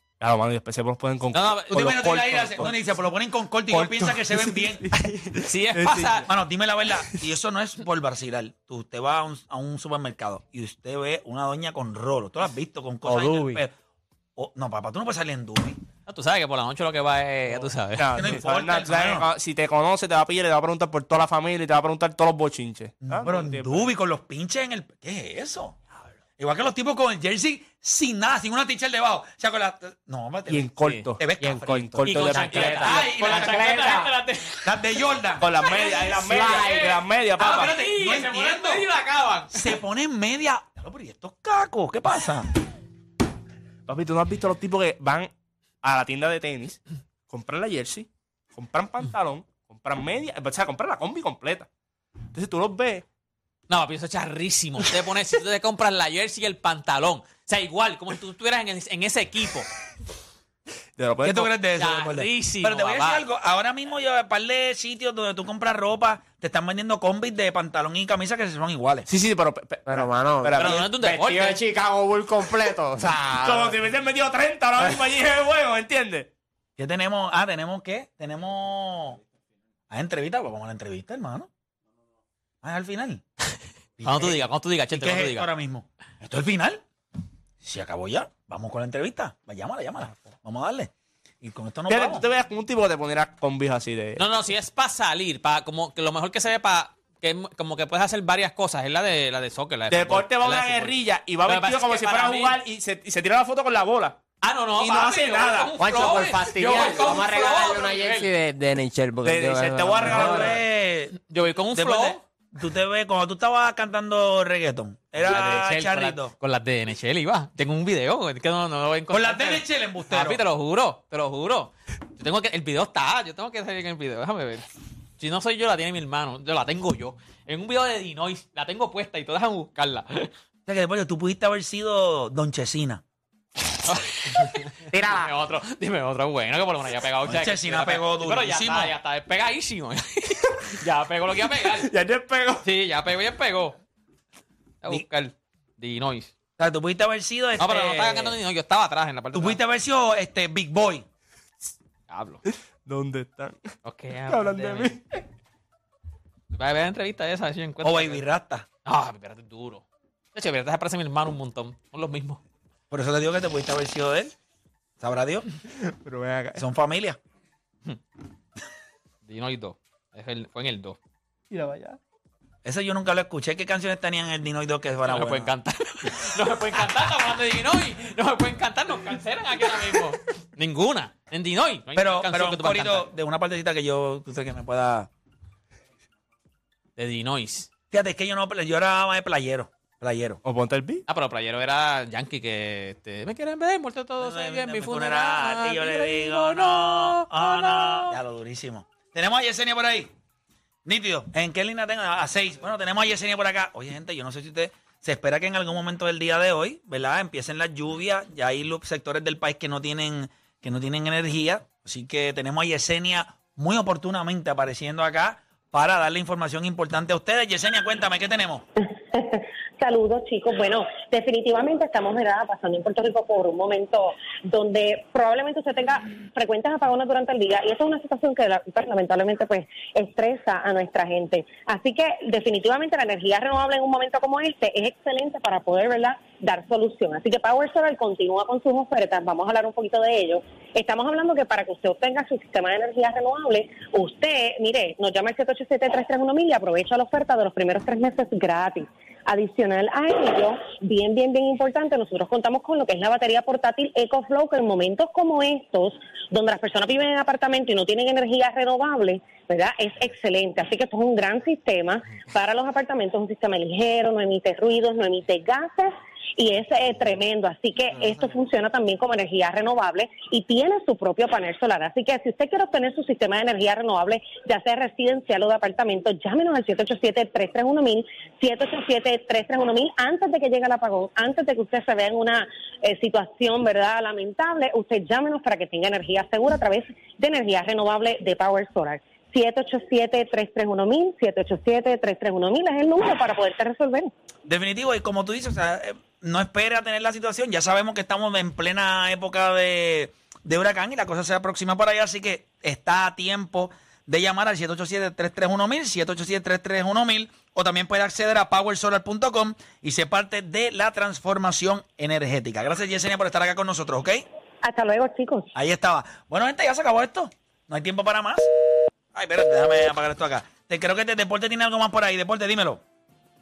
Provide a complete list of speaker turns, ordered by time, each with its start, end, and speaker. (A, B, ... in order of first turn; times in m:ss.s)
0:00.2-0:02.7 A
0:01.3-0:02.7 B
0:01.7-0:04.8 C
0:03.7-0:06.2 A
0:05.5-0:06.3 B
0:06.3-0:13.7 C
0:13.0-0:13.6 D
0:14.4-0:15.8 C
0:16.1-0:18.4 B
0:18.0-0:23.9 A
0:18.1-0:19.3 C
0:23.0-0:25.8 C
0:26.4-0:34.0 C
0:30.5-0:33.0 A
0:31.4-0:34.1 D
0:32.1-0:35.0 B
0:34.6-0:35.7 C
0:35.4-0:37.8 A
0:35.6-0:39.8 B
0:36.2-0:36.9 D
0:37.4-0:38.8 C
0:39.5-0:42.5 C
0:43.9-0:45.3 A
0:45.8-0:51.7 A
0:52.3-0:53.0 A
0:53.7-0:59.7 B
1:01.0-1:01.5 A
1:01.2-1:09.1 C
1:01.8-1:03.2 B
1:09.1-1:10.9 A
1:09.9-1:13.8 D
1:10.6-1:11.6 B
1:13.4-1:16.3 A
1:16.8-1:19.2 C
1:19.9-1:21.5 C
1:22.6-1:23.2 C
1:24.0-1:26.8 C
1:24.0-1:25.5 B
1:27.6-1:30.9 C
1:31.4-1:32.3 C
1:31.9-1:34.2 A
1:34.2-1:42.6 B
1:39.9-1:44.2 A
1:44.4-1:48.3 B
1:44.8-1:45.7 A
1:45.8-1:50.6 D
1:49.2-1:50.6 A
1:50.1-1:51.2 C
1:51.2-1:52.2 B
1:51.7-1:56.3 C
1:55.2-2:04.7 B
1:59.1-2:00.4 C
2:05.2-2:10.3 B
2:10.7-2:13.0 C
2:13.8-2:21.9 B
2:14.9-2:15.3 D
2:17.3-2:18.9 C
2:21.7-2:22.6 A
2:22.6-2:23.8 B
2:24.8-2:26.3 B
2:26.6-2:28.4 C
2:27.6-2:29.6 B
2:29.3-2:31.1 C
2:32.1-2:32.4 B
2:32.5-2:33.7 A
2:33.8-2:34.9 B
2:34.3-2:35.0 A
2:36.5-2:38.2 B
2:37.8-2:38.7 C
2:38.8-2:39.8 B
2:40.4-2:42.4 B
2:42.9-2:44.3 C
2:45.0-2:45.5 C
2:45.9-2:46.6 A
2:46.6-2:47.2 C
2:49.2-2:51.0 B
2:51.5-2:52.0 A
2:52.6-2:55.5 C
2:55.1-3:03.1 B
3:02.0-3:05.1 C
3:07.0-3:07.7 B
3:07.9-3:10.4 C
3:10.4-3:11.0 A
3:11.1-3:18.2 B
3:14.2-3:20.1 C
3:20.8-3:38.6 C
3:39.0-4:54.1 E
4:54.5-5:14.2 C
5:14.6-5:15.5 E
5:15.6-5:18.5 C
5:19.1-5:22.8 C